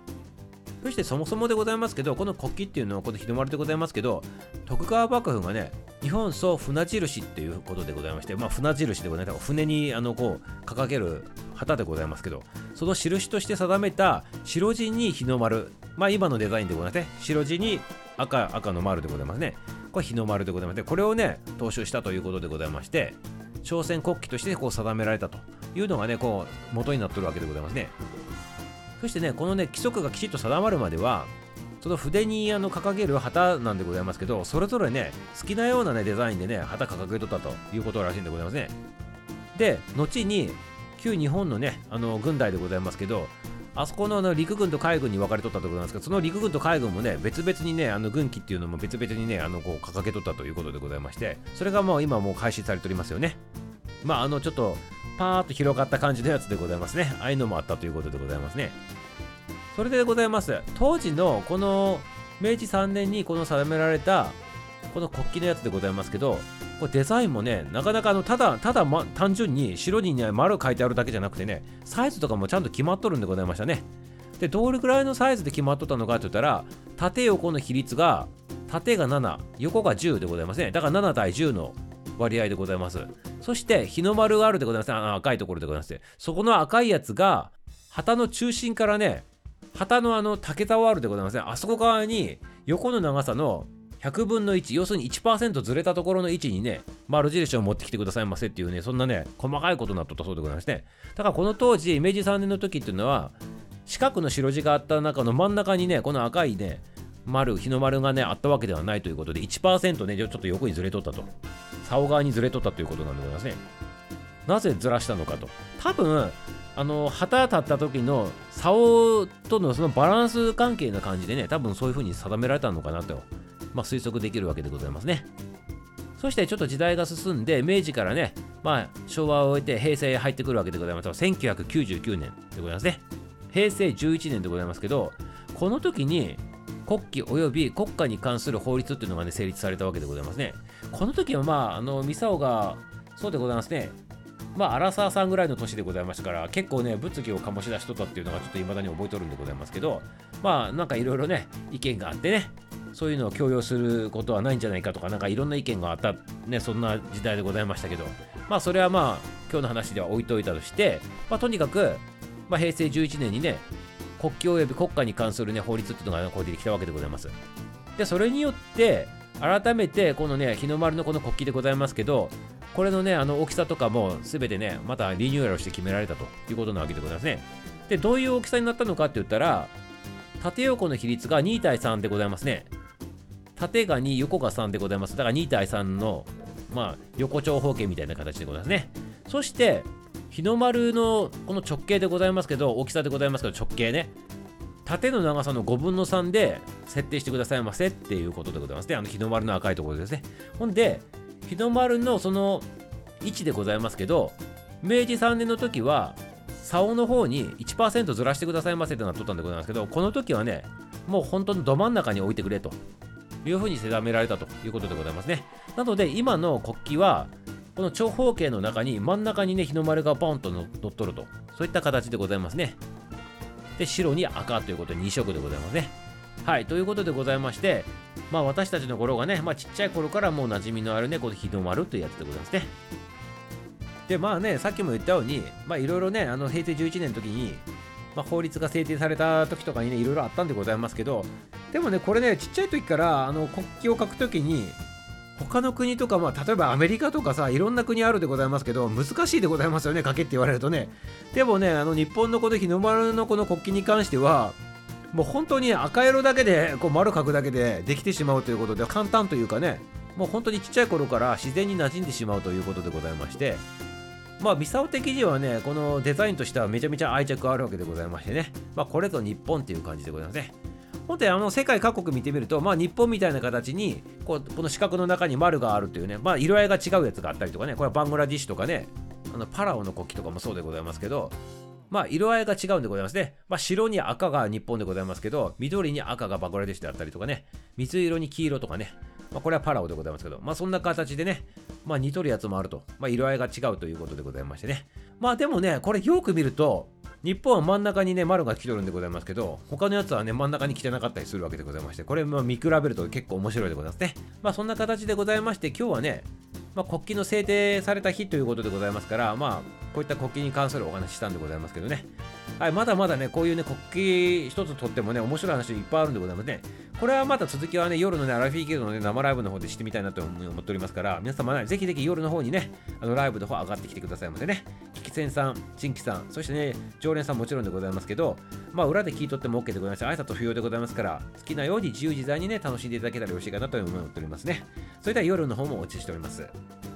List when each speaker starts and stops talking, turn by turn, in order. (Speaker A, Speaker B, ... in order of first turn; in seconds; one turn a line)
Speaker A: 0.8-27.9
Speaker A: 29.0-38.7
Speaker A: 39.5-53.4
Speaker A: 54.0-58.8
Speaker A: 59.7-64.4
Speaker A: 64.9-73.9
Speaker A: 74.4-111.3
Speaker A: 111.8-113.6
Speaker A: 114.5-125.3
Speaker A: 126.2-143.9
Speaker A: 144.5-163.7
Speaker A: 164.2-167.3
Speaker A: 167.9-179.7
Speaker A: 180.4-182.7
Speaker A: 183.6-194.1
Speaker A: 194.8-202.7
Speaker A: 203.2-212.8
Speaker A: 213.4-222.8
Speaker A: 223.8-232.7
Speaker A: 234.1-244.8
Speaker A: 245.3-254.6
Speaker A: 255.1-263.6
Speaker A: 264.4-281.4
Speaker A: 281.9-336.5